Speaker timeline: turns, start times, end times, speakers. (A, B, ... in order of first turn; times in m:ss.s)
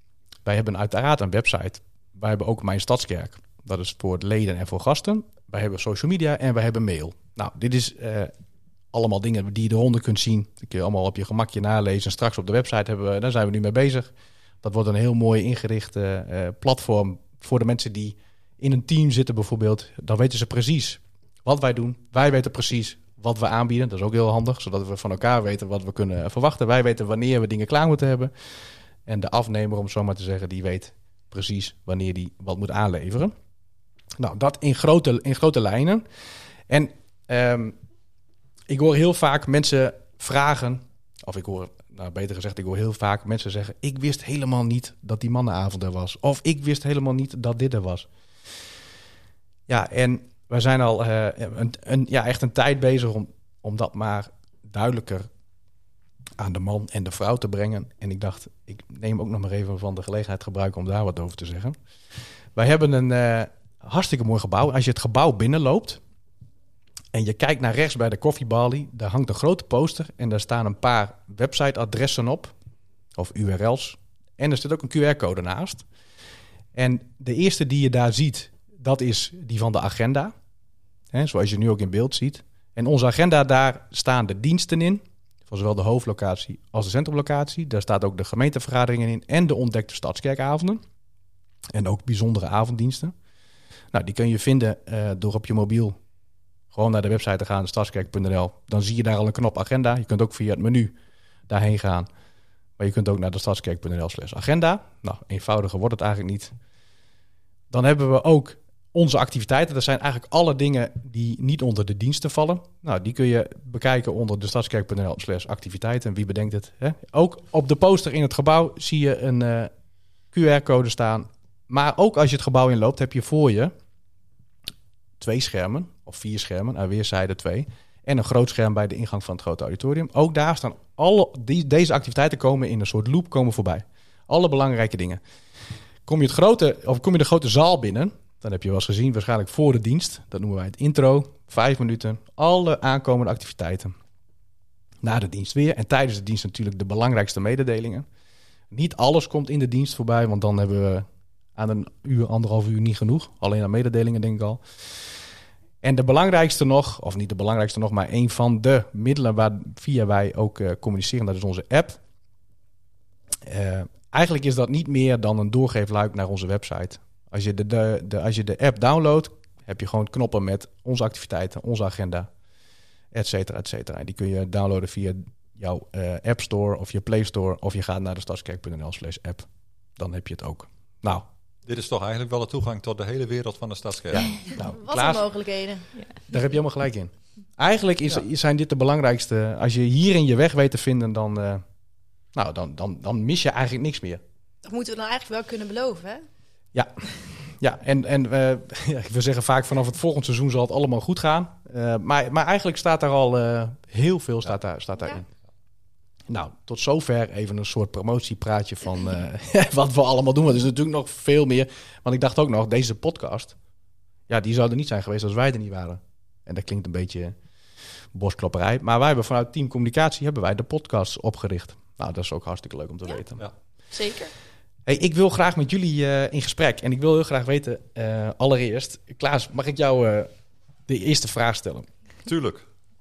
0:00.4-0:08.3 A
0:08.9-0:33.3 A
0:34.2-0:36.0 A
0:36.7-0:37.8 A
0:38.7-0:48.1 A
0:49.7-0:55.3 A
0:56.4-1:01.8 A
1:02.6-1:06.0 A
1:07.1-1:12.5 A
1:13.2-1:15.9 A
1:16.8-1:20.3 A
1:21.1-1:30.8 A
1:31.7-1:33.2 A
1:33.9-1:36.0 A
1:36.7-1:40.9 A
1:41.5-1:42.1 A
1:42.8-1:46.5 A
1:47.7-1:59.7 A
2:00.3-2:03.7 A
2:05.2-2:15.2 A
2:16.0-2:24.0 A
2:25.0-2:28.1 A
2:28.7-2:35.2 A
2:35.8-2:42.0 A
2:43.4-2:52.3 A
2:53.1-3:01.3 A
3:01.6-3:04.5 B
3:04.4-3:05.9 C
3:04.5-3:05.3 A
3:06.2-3:11.6 A
3:12.4-3:14.2 A
3:14.6-3:16.3 C
3:16.7-3:25.3 A
3:26.3-3:33.6 A
3:34.3-3:37.4 A
3:38.1-3:43.5 A
3:43.9-3:44.3 C
3:44.9-3:50.3 A
3:50.9-3:51.9 A
3:52.3-3:52.7 B